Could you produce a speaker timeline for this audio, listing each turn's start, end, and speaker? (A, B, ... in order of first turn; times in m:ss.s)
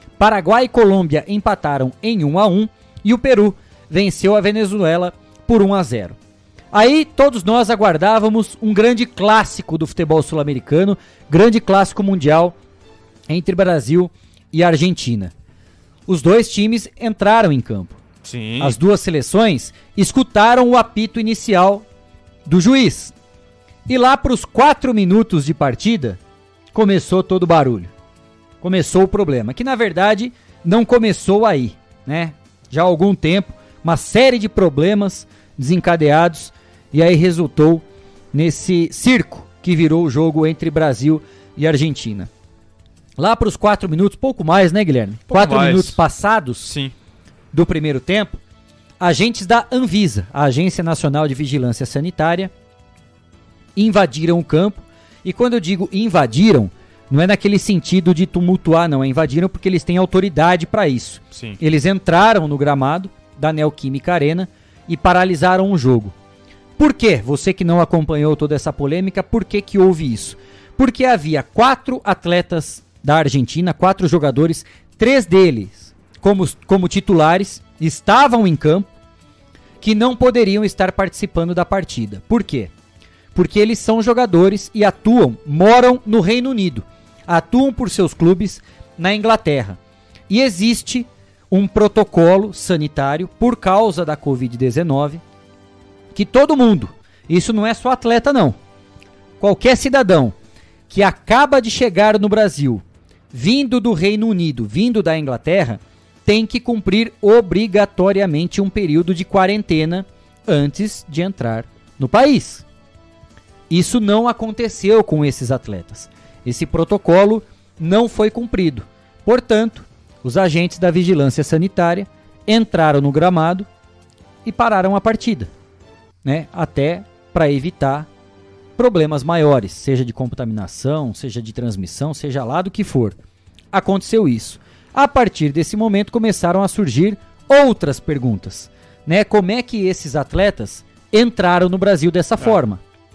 0:00.2-0:06.2 A
0:06.7-0:12.6 A
0:13.3-0:15.3 A
0:16.1-0:18.0 A
0:18.2-0:18.8 B
0:18.6-0:21.8 A
0:22.4-0:23.1 A
0:23.9-0:26.2 A
0:26.7-0:27.9 A
0:28.6-0:42.3 A
0:43.2-0:46.7 A
0:45.3-0:46.0 B
0:46.6-0:46.9 B
0:47.5-0:48.4 A
0:49.0-0:52.5 A
0:53.8-1:06.1 A
1:01.3-1:01.6 B
1:06.8-1:18.9 A
1:19.8-1:22.7 A
1:23.3-1:29.8 A
1:30.3-1:35.2 A
1:36.1-1:38.6 A
1:39.4-1:40.3 A
1:40.9-1:52.6 A
1:53.7-2:03.7 A
2:04.4-2:05.5 A
2:06.2-2:08.1 A
2:08.8-2:13.2 A
2:13.7-2:22.8 A